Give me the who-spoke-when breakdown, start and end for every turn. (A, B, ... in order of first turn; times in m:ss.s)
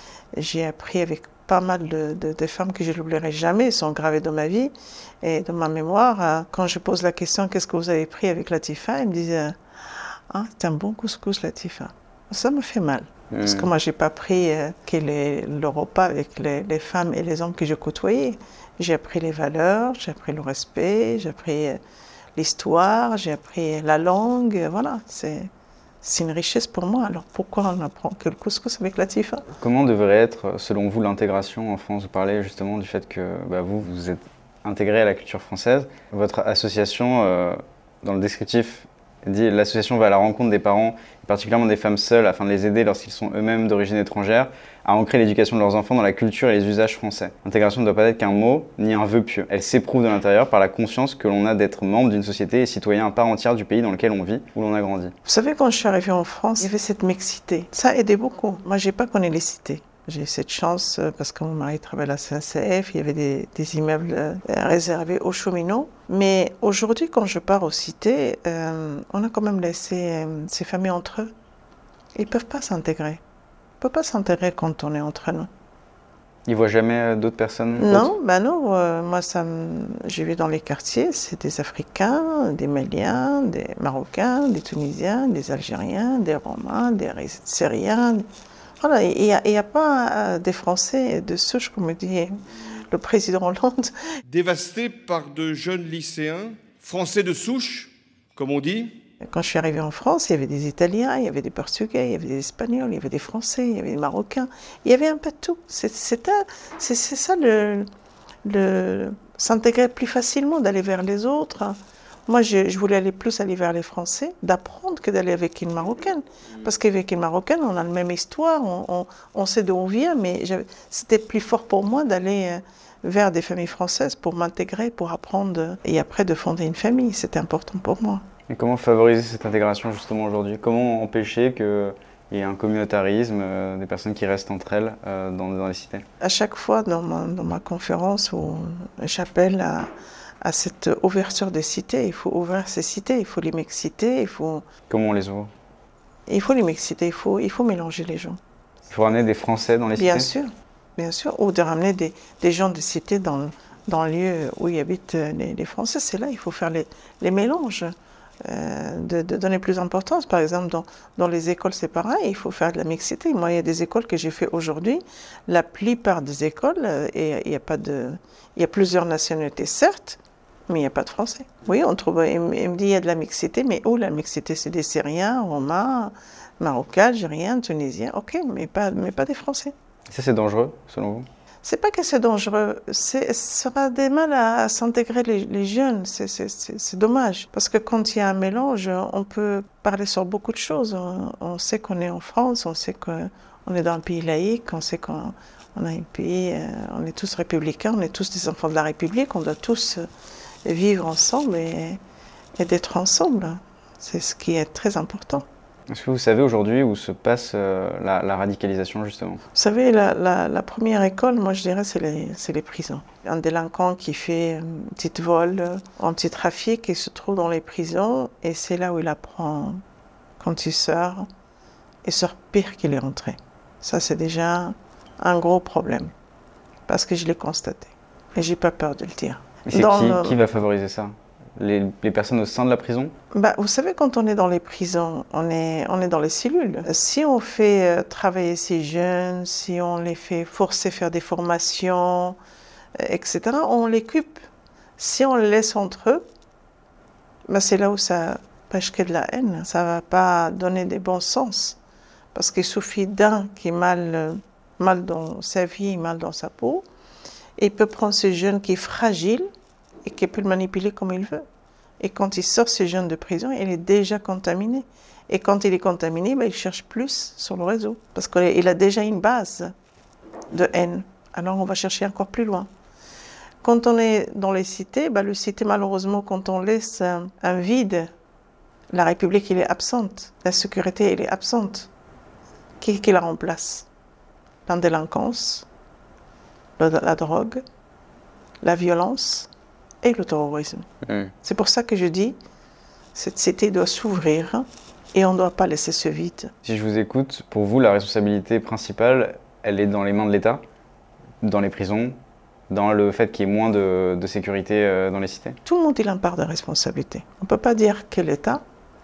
0:00.3-0:21.8 A
0:13.3-0:13.7 B
0:22.4-0:25.5 A
0:26.0-0:29.4 A
0:29.6-0:55.1 B
0:55.2-1:11.3 A
1:12.2-1:13.2 A
1:13.8-1:15.5 A
1:16.5-1:18.1 B
1:17.8-1:28.2 A
1:28.8-1:33.9 A
1:34.3-1:39.0 C
1:39.2-1:47.9 A
1:48.4-2:08.2 A
2:08.5-2:16.0 B
2:16.2-2:24.6 A
2:24.9-2:25.5 B
2:26.3-2:28.4 A
2:28.9-2:30.3 B
2:30.0-2:59.7 A
3:00.1-3:01.3 B
3:01.6-3:20.1 A
3:20.6-3:22.0 A
3:22.6-3:25.5 A
3:25.9-3:29.4 B
3:29.5-3:39.8 A
3:40.4-3:41.3 A
3:42.0-3:46.1 A
3:46.9-3:50.4 A
3:49.7-3:53.2 B
3:53.3-4:02.4 A
4:03.0-4:04.5 A
4:05.0-4:06.2 A
4:07.5-4:11.8 A
4:12.3-4:16.9 A
4:17.6-4:19.5 A
4:20.0-4:21.5 A
4:22.0-4:29.7 A
4:30.5-4:32.7 A
4:33.6-4:38.1 A
4:38.9-4:41.9 A
4:42.8-4:43.9 A
4:44.7-4:45.7 A
4:46.8-4:47.6 A
4:48.6-4:49.5 A
4:50.0-4:50.9 A
4:51.0-4:51.3 B
4:51.4-4:52.4 A
4:53.1-4:56.5 A
4:56.6-5:00.6 B
5:01.4-5:02.2 B
5:02.7-5:05.6 B
5:05.6-5:08.6 A